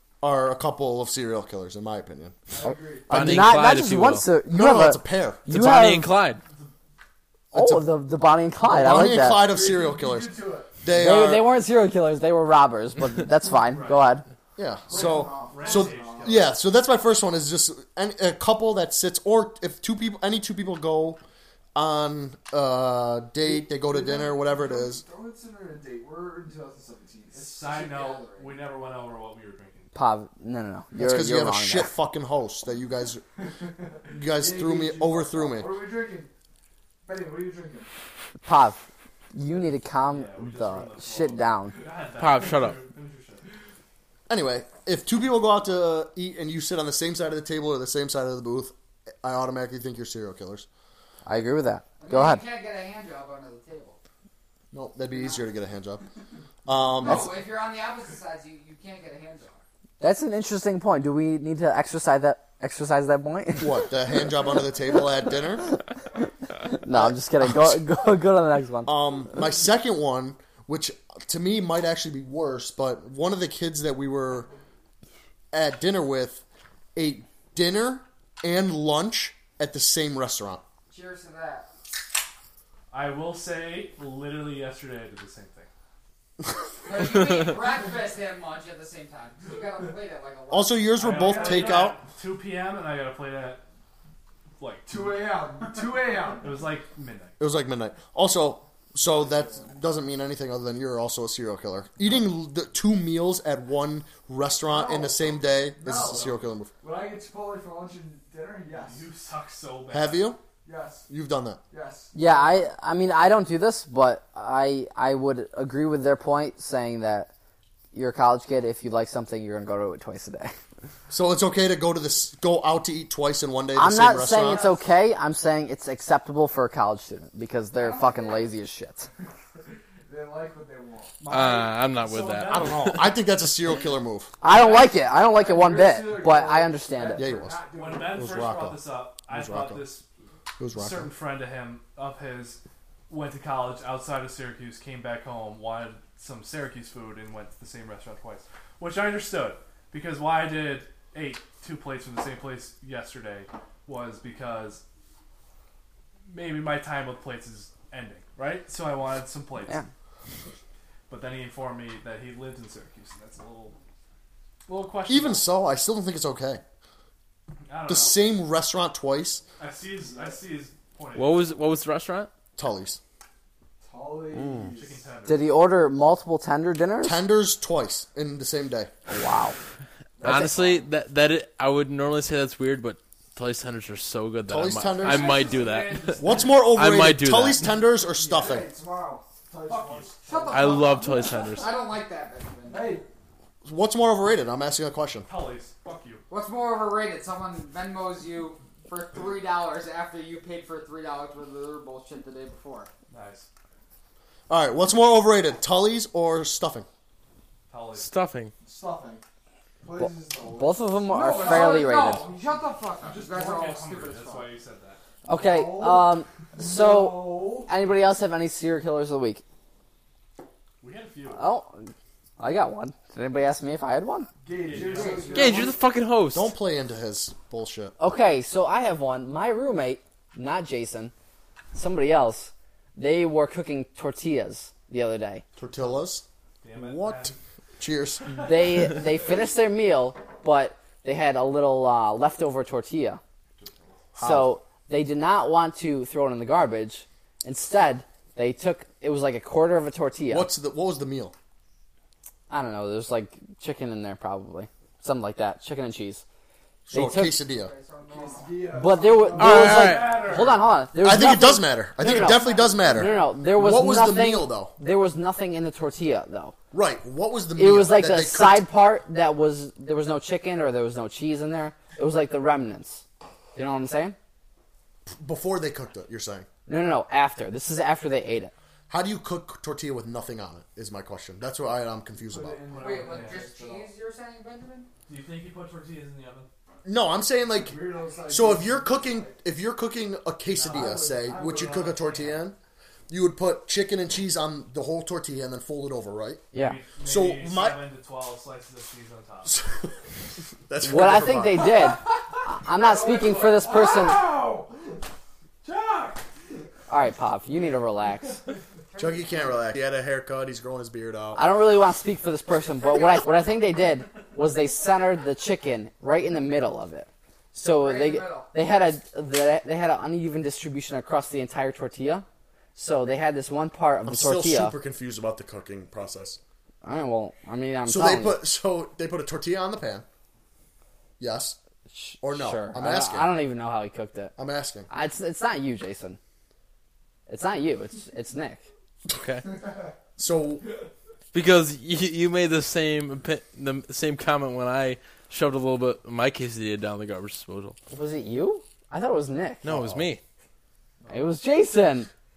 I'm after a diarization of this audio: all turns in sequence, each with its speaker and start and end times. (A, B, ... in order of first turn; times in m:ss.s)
0:00.2-0:02.4 A
0:02.5-0:03.4 B
0:02.6-0:06.1 C
0:03.1-0:04.3 D
0:04.5-0:05.5 A
0:05.5-0:06.4 D
0:07.5-0:07.9 A
0:07.5-0:09.5 C
0:08.6-0:11.5 A
0:09.2-0:10.8 B
0:10.9-0:14.2 C
0:13.7-0:14.1 E
0:14.6-0:21.2 A
0:14.9-0:16.5 B
0:14.9-0:15.5 F
0:15.0-0:16.5 E
0:21.8-0:25.0 A
0:23.4-0:28.5 B
0:27.3-0:29.9 E
0:30.0-0:31.9 C
0:31.0-0:33.2 A
0:33.6-0:36.3 B
0:34.1-0:35.7 A
0:37.0-0:37.9 B
0:38.4-0:41.8 C
0:40.1-0:43.4 E
0:42.2-0:42.8 D
0:44.3-0:50.7 A
0:51.3-0:52.4 C
0:52.0-0:54.0 F
0:54.7-0:56.0 A
0:55.1-0:55.4 F
0:56.6-0:57.4 A
0:57.0-0:59.6 F
1:00.0-1:03.9 C
1:03.6-1:05.8 A
1:06.6-1:08.9 C
1:06.9-1:07.9 A
1:08.8-1:14.5 A
1:15.5-1:16.4 A
1:17.0-1:20.6 A
1:20.9-1:21.7 F
1:22.9-1:25.7 E
1:26.8-1:31.0 F
1:30.5-1:32.0 A
1:31.0-1:33.6 E
1:31.1-1:31.8 B
1:34.6-1:35.5 E
1:34.9-1:36.7 B
1:36.3-1:37.4 E
1:37.4-1:46.7 A
1:39.1-1:39.6 B
1:44.6-1:49.1 B
1:46.0-1:46.5 E
1:48.7-1:50.3 E
1:49.9-1:50.4 A
1:50.6-1:51.1 B
1:51.1-1:51.6 A
1:51.7-1:52.7 B
1:52.1-1:57.3 C
1:57.9-2:00.5 C
2:01.1-2:04.7 A
2:03.8-2:09.1 C
2:07.8-2:08.5 F
2:10.1-2:11.2 B
2:11.2-2:13.0 E
2:11.3-2:13.1 D
2:12.5-2:14.3 A
2:14.4-2:17.2 C
2:14.5-2:14.9 E
2:14.7-2:18.3 B
2:17.2-2:19.8 A
2:17.7-2:20.1 E
2:20.6-2:21.1 A
2:20.7-2:34.8 E
2:36.3-2:39.8 E
2:41.1-2:43.8 E
2:44.7-2:45.5 E
2:45.1-2:46.6 A
2:47.7-2:48.2 E
2:47.9-2:49.4 A
2:49.6-2:51.5 E
2:50.0-2:50.4 B
2:51.1-2:52.3 D
2:52.6-2:53.0 A
2:53.8-2:55.1 B
2:54.8-2:55.5 E
2:55.3-2:57.2 C
2:57.0-2:58.9 A
2:59.1-2:59.6 C
3:00.2-3:00.9 B
3:00.2-3:07.7 D
3:04.5-3:05.4 A
3:05.0-3:06.6 E
3:05.4-3:05.7 B
3:06.2-3:08.7 A
3:08.0-3:11.0 B
3:09.6-3:10.5 E
3:10.2-3:13.0 F
3:10.5-3:11.7 D
3:12.7-3:13.0 B
3:13.6-3:15.3 A
3:15.3-3:16.2 E
3:16.3-3:22.9 F
3:23.1-3:23.5 E
3:24.5-3:26.9 A
3:27.7-3:28.1 E
3:28.0-3:28.5 D
3:28.6-3:29.2 B
3:29.8-3:33.2 B
3:30.0-3:32.2 C
3:31.2-3:34.5 F
3:33.0-3:35.0 E
3:35.3-3:39.4 C
3:35.3-3:37.7 B
3:40.8-3:41.4 E
3:41.3-3:41.9 C
3:42.4-3:44.3 C
3:44.4-3:45.8 B
3:44.6-3:45.5 E
3:44.7-3:45.7 F
3:45.3-3:46.5 D
3:46.3-3:48.0 A
3:48.0-3:51.1 C
3:51.7-3:55.4 C
3:55.6-3:56.2 A
3:56.6-3:57.4 E
3:56.8-3:58.3 A
3:58.4-4:03.2 C
4:03.6-4:04.0 E
4:04.2-4:04.5 A
4:04.2-4:10.5 C
4:10.3-4:11.3 A
4:12.5-4:16.2 C
4:16.9-4:17.7 A
4:16.9-4:17.4 C
4:17.5-4:18.8 F
4:18.1-4:19.7 B
4:18.7-4:26.6 C
4:19.4-4:20.3 D
4:19.4-4:20.7 E
4:21.0-4:24.7 A
4:22.2-4:23.2 F
4:22.6-4:23.1 B
4:26.7-4:28.6 A
4:27.6-4:33.0 C
4:33.6-4:34.2 C
4:35.1-4:36.5 A
4:36.7-4:38.5 C
4:38.9-4:42.6 A
4:42.2-4:43.9 B
4:42.7-4:43.5 E
4:42.8-4:44.9 F
4:45.1-4:46.5 E
4:46.8-4:52.6 A
4:47.5-4:49.4 B
4:50.5-4:51.5 E
4:50.6-4:52.2 B
4:52.0-4:52.3 E
4:53.1-4:56.4 A
4:56.5-4:56.8 C
4:56.5-4:59.6 E
4:57.0-4:57.8 A
4:59.4-5:00.0 A
5:00.7-5:01.9 A
5:00.8-5:04.3 C
5:02.7-5:04.8 B
5:05.6-5:06.2 E
5:06.9-5:08.4 C
5:08.9-5:09.6 F
5:09.0-5:11.4 A
5:11.4-5:22.2 C
5:17.6-5:18.5 F
5:22.8-5:24.8 C
5:24.1-5:26.4 A
5:26.8-5:28.4 C
5:27.9-5:30.1 A
5:31.2-5:31.6 A
5:31.9-5:34.3 C
5:32.2-5:33.3 A
5:34.4-5:34.9 A
5:34.9-5:36.2 C
5:37.3-5:38.6 C
5:39.1-5:39.5 D
5:40.2-5:40.7 A
5:41.3-5:47.8 D
5:47.9-5:49.6 C
5:49.6-5:50.2 D
5:49.7-5:50.1 A
5:51.1-5:52.1 C